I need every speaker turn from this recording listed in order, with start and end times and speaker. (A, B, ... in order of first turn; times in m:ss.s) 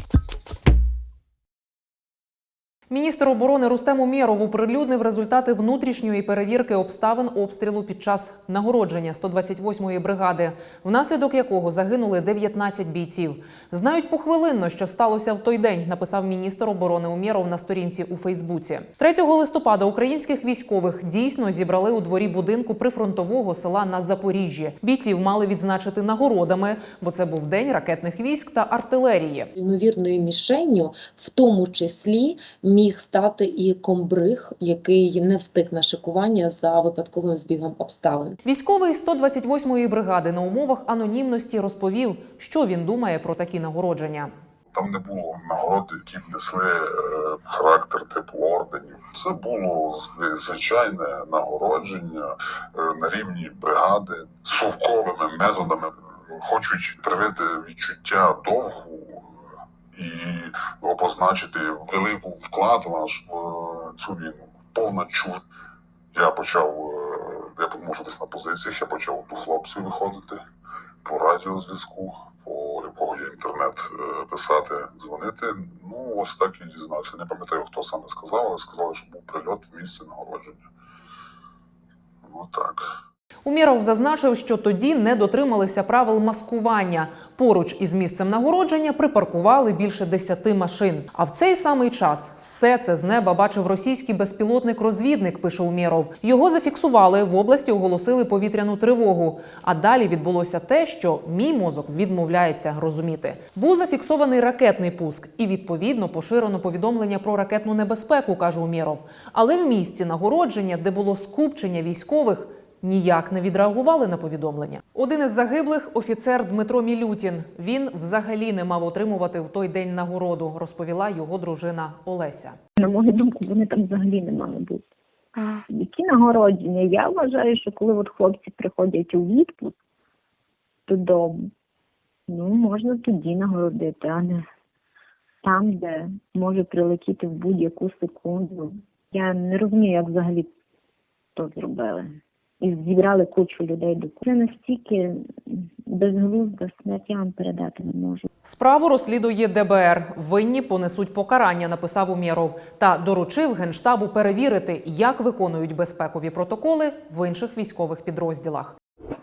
0:02.9-0:29.5 A
0:29.6-0:38.4 B
0:38.4-0:44.3 A
0:44.7-0:59.3 C
0:59.9-1:05.4 C
1:06.1-1:10.4 C
1:11.0-1:20.6 C
1:22.3-1:22.8 C
1:23.4-2:02.6 A
2:02.8-2:04.8 D
2:05.7-2:09.7 D
2:10.9-2:11.5 D
2:12.3-2:14.4 D
2:15.4-2:20.5 D
2:21.4-2:28.3 D
2:28.4-2:38.8 A